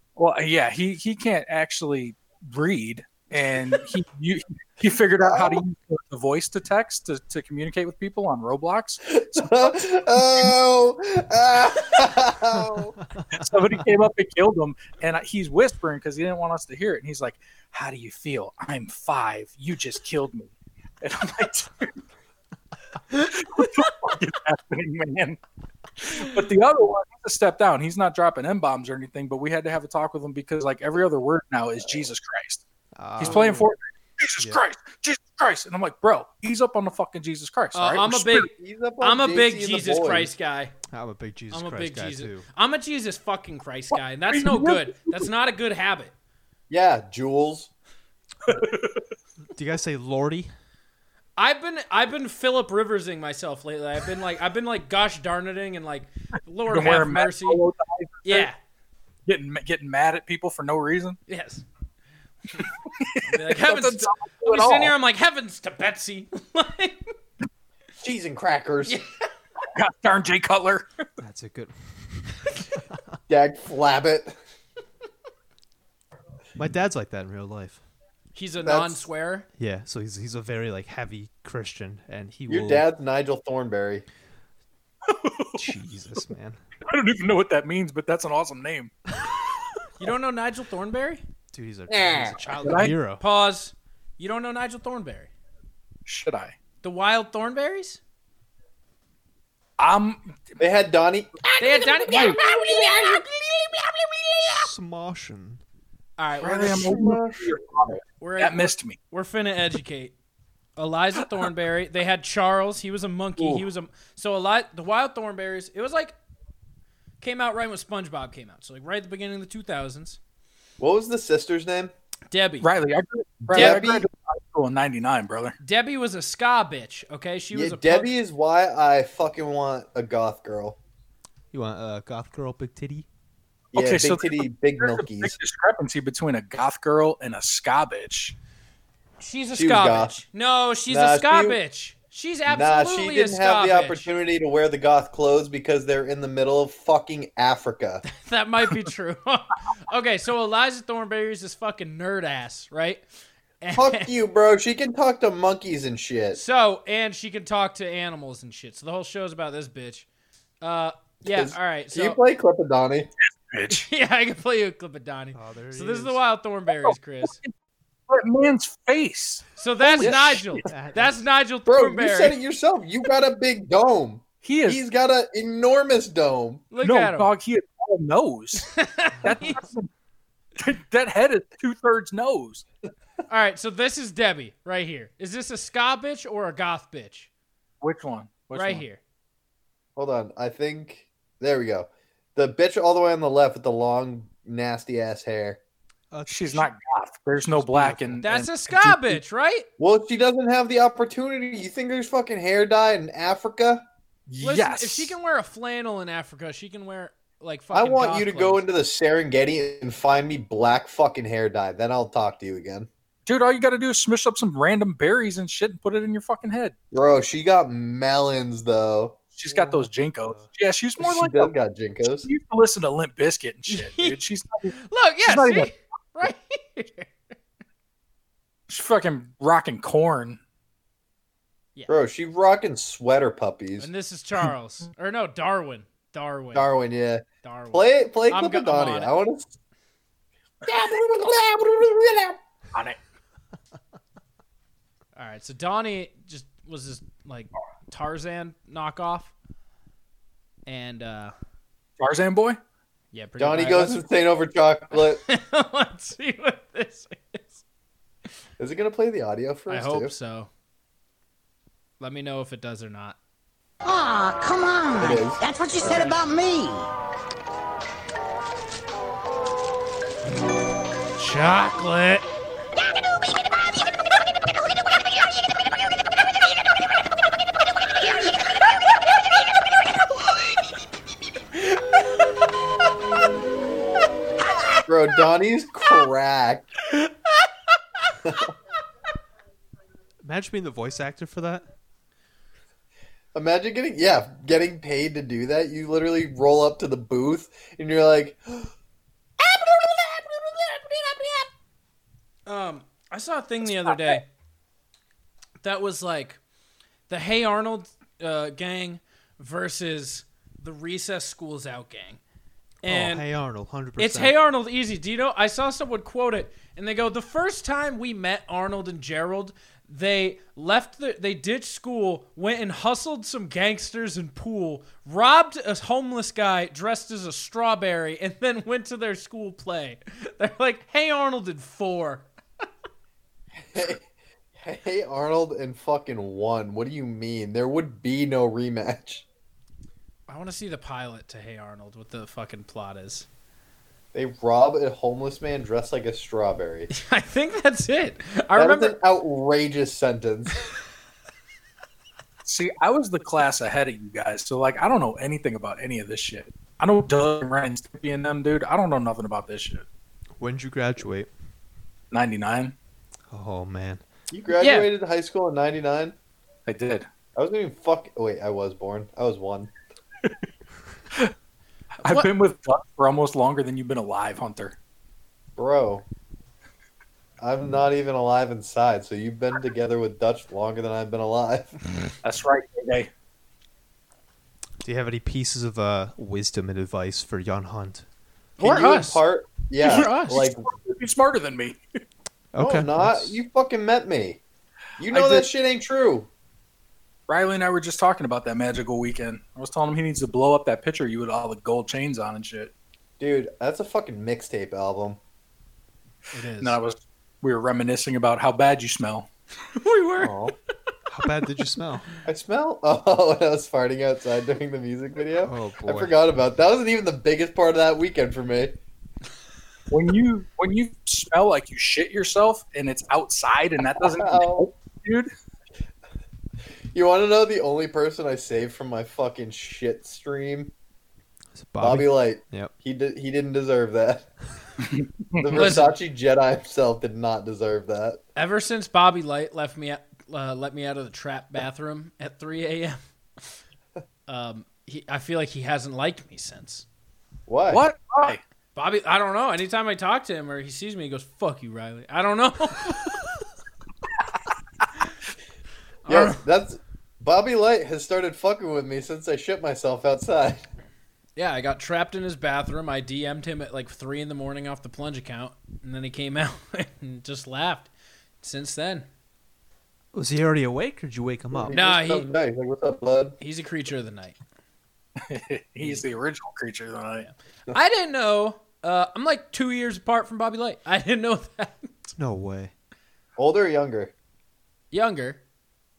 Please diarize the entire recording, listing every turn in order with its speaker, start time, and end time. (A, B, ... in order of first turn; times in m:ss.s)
0:00.2-0:09.8 A
0:05.2-0:05.6 B
0:09.1-0:12.9 B
0:13.2-0:13.4 C
0:13.3-0:22.0 A
0:23.1-0:25.4 A
0:26.0-0:32.6 A
0:33.0-0:33.7 C
0:33.2-0:38.5 A
0:37.7-0:38.5 D
0:38.5-0:40.3 B
0:39.0-0:40.7 D
0:40.9-0:42.4 C
0:41.5-0:46.1 D
0:44.3-0:45.3 A
0:46.7-0:47.7 B
0:48.4-0:49.0 A
0:49.5-0:50.5 C
0:51.4-0:57.6 D
0:56.7-0:58.5 A
0:58.2-0:58.6 D
0:59.3-1:01.2 A
1:01.3-1:01.6 D
1:02.9-1:04.9 A
1:03.2-1:07.1 D
1:08.0-1:09.0 B
1:08.8-1:09.3 D
1:09.7-1:10.9 A
1:11.2-1:12.8 C
1:13.3-1:14.4 B
1:16.6-1:17.8 C
1:18.3-1:19.5 D
1:18.6-1:19.1 B
1:19.6-1:22.8 C
1:22.5-1:24.0 B
1:25.0-1:25.7 A
1:25.6-1:26.6 C
1:26.8-1:28.9 A
1:30.0-1:31.2 D
1:31.5-1:33.2 C
1:31.9-1:32.6 E
1:32.6-1:33.0 A
1:33.2-1:35.3 D
1:36.0-1:36.6 A
1:36.8-1:38.0 D
1:39.8-1:40.6 A
1:40.6-1:41.3 B
1:41.4-1:44.7 E
1:41.6-1:42.4 D
1:44.5-1:45.6 C
1:46.2-1:46.9 D
1:46.4-1:49.0 A
1:46.4-1:47.8 B
1:48.2-1:50.1 D
1:50.8-1:56.1 D
1:57.2-2:00.2 D
2:00.8-2:01.9 B
2:02.3-2:02.7 D
2:02.6-2:05.6 A
2:03.5-2:04.1 B
2:03.5-2:03.8 D
2:05.6-2:08.1 D
2:07.5-2:10.8 B
2:11.5-2:13.0 C
2:13.7-2:15.4 B
2:13.7-2:18.3 A
2:19.2-2:24.1 D
2:19.5-2:20.2 B
2:20.9-2:21.6 B
2:22.5-2:28.0 B
2:28.0-2:33.0 D
2:33.6-2:34.1 D
2:33.7-2:36.4 B
2:36.3-2:40.0 D
2:40.6-2:42.2 D
2:41.2-2:43.1 B
2:43.5-2:43.8 A
2:43.7-2:47.4 D
2:45.3-2:46.2 C
2:46.8-2:47.5 A
2:48.1-2:50.4 A
2:49.6-2:52.4 D
2:50.0-2:50.6 B
2:50.7-2:51.2 C
2:51.7-2:56.6 B
2:54.4-2:54.8 A
2:56.7-2:57.3 D
2:56.8-2:59.9 A
2:58.6-2:59.5 D
3:00.6-3:02.6 A
3:03.3-3:07.3 D
3:07.8-3:08.8 A
3:08.5-3:09.0 D
3:10.0-3:15.6 B
3:16.1-3:16.7 C
3:16.3-3:18.5 A
3:17.5-3:18.3 C
3:18.2-3:19.7 D
3:19.8-3:23.8 B
3:24.3-3:25.1 A
3:24.4-3:28.6 D
3:27.7-3:32.9 B
3:33.2-3:36.7 A
3:36.9-3:39.2 B
3:39.4-3:41.5 A
3:41.0-3:42.3 B
3:42.2-3:45.7 A
3:43.7-3:44.2 D
3:44.8-3:47.1 D
3:48.7-3:50.4 A
3:51.9-3:53.9 B
3:53.8-3:56.7 D
3:56.5-3:59.6 B
3:57.4-3:59.1 D
4:00.6-4:02.4 B
4:05.2-4:09.3 D
4:10.7-4:11.3 D
4:12.0-4:12.6 A
4:13.1-4:14.1 D
4:13.4-4:15.2 B
4:15.2-4:17.6 D
4:18.6-4:20.1 B
4:19.7-4:20.5 D
4:22.0-4:23.2 D
4:23.8-4:26.9 E
4:25.0-4:26.1 B
4:25.9-4:26.1 D
4:31.2-4:32.2 D
4:33.0-4:33.4 E
4:44.8-4:46.7 B
4:48.2-4:48.5 B
4:50.2-4:51.7 C
4:53.3-4:58.7 B
4:59.4-5:01.2 B
5:02.5-5:04.3 D
5:05.6-5:06.4 D
5:07.1-5:12.2 D
5:12.8-5:13.2 D
5:12.8-5:14.4 C
5:14.0-5:32.3 D
5:33.6-5:34.0 B
5:34.6-5:39.2 B
5:40.3-5:43.3 D
5:44.1-5:46.9 B
5:46.9-5:49.0 D
5:48.5-5:50.7 B
5:52.4-5:59.8 A
6:00.4-6:01.3 C
6:02.1-6:02.7 A
6:03.3-6:04.0 C
6:04.3-6:06.1 B
6:04.6-6:04.9 D
6:06.7-6:07.0 A
6:07.4-6:09.7 B
6:12.0-6:12.3 D
6:12.0-6:14.8 A
6:15.6-6:16.0 B
6:17.4-6:21.7 B
6:22.2-6:23.1 A
6:24.8-6:28.0 C
6:28.6-6:29.2 D
6:28.6-6:30.6 B
6:29.8-6:30.4 D
6:29.8-6:31.8 A
6:32.5-6:33.4 C
6:32.6-6:34.4 B
6:35.0-6:36.3 B
6:35.1-6:35.5 A
6:37.3-6:42.7 A
6:43.2-6:45.2 B
6:46.3-6:46.7 C
6:46.6-6:49.3 A
6:49.8-6:50.3 D
6:50.2-6:50.5 B
6:51.1-6:52.1 C
6:52.2-6:58.8 B
6:55.4-6:56.1 C
6:59.9-7:05.3 A
7:04.0-7:04.7 B
7:06.9-7:10.7 B
7:11.6-7:12.7 C
7:11.8-7:14.3 B
7:14.8-7:15.7 A
7:15.4-7:18.2 B
7:15.5-7:15.9 D
7:18.3-7:23.0 D
7:24.3-7:26.8 D
7:27.5-7:27.8 B
7:27.7-7:28.4 A
7:28.7-7:33.1 D
7:36.0-7:36.4 D
7:36.1-7:40.6 B
7:41.4-7:47.9 D
7:48.4-7:49.1 D
7:50.1-7:51.8 C
7:51.5-7:53.4 B
7:51.7-7:52.3 D
7:53.4-7:54.4 D
7:55.2-7:57.3 A
7:57.7-8:02.1 D
8:02.2-8:02.7 C
8:03.4-8:04.1 B
8:04.9-8:05.4 D